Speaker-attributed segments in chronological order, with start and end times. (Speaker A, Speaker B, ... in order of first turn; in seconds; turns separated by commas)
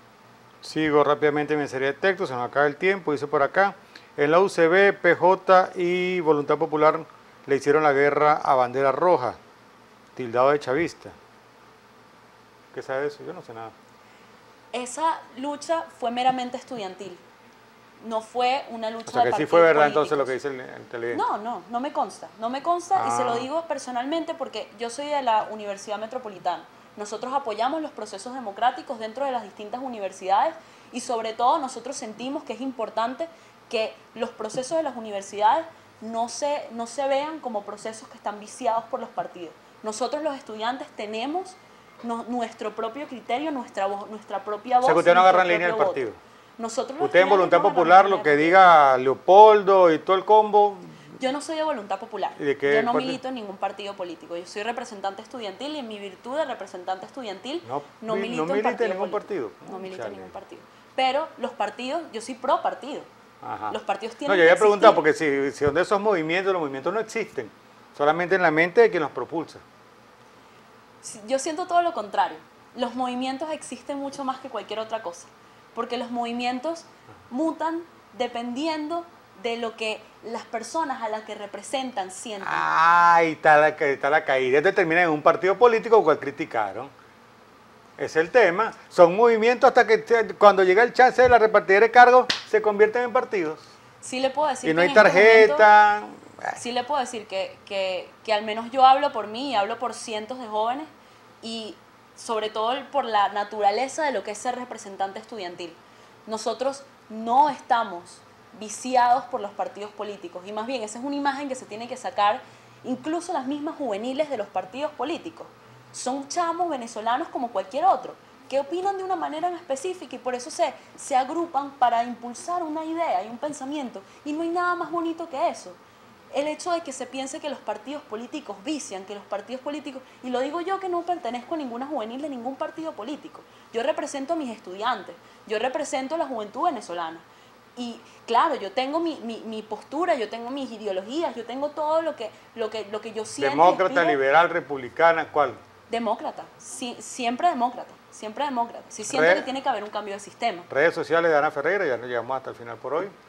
Speaker A: 0.6-9.4, Speaker A: 10.2-11.2, Speaker A: 12.7-13.7, Speaker B: 14.7-17.2, Speaker B: 18.0-20.3, Speaker A: 19.1-21.2, Speaker B: 21.1-46.0, Speaker A: 22.9-23.5, Speaker A: 44.8-46.2, Speaker B: 46.6-48.6, Speaker A: 47.0-51.0, Speaker B: 51.2-63.1, Speaker A: 52.4-53.2, Speaker A: 57.6-60.3, Speaker A: 63.4-69.6, Speaker B: 63.7-65.0, Speaker B: 71.0-82.7, Speaker A: 82.4-86.9, Speaker A: 88.0-93.7, Speaker B: 94.0-95.7, Speaker A: 94.6-96.6, Speaker B: 96.5-100.9, Speaker B: 101.4-125.8, Speaker B: 126.3-144.2, Speaker A: 143.4-145.6, Speaker B: 145.9-150.7, Speaker A: 149.1-149.5, Speaker A: 150.7-153.1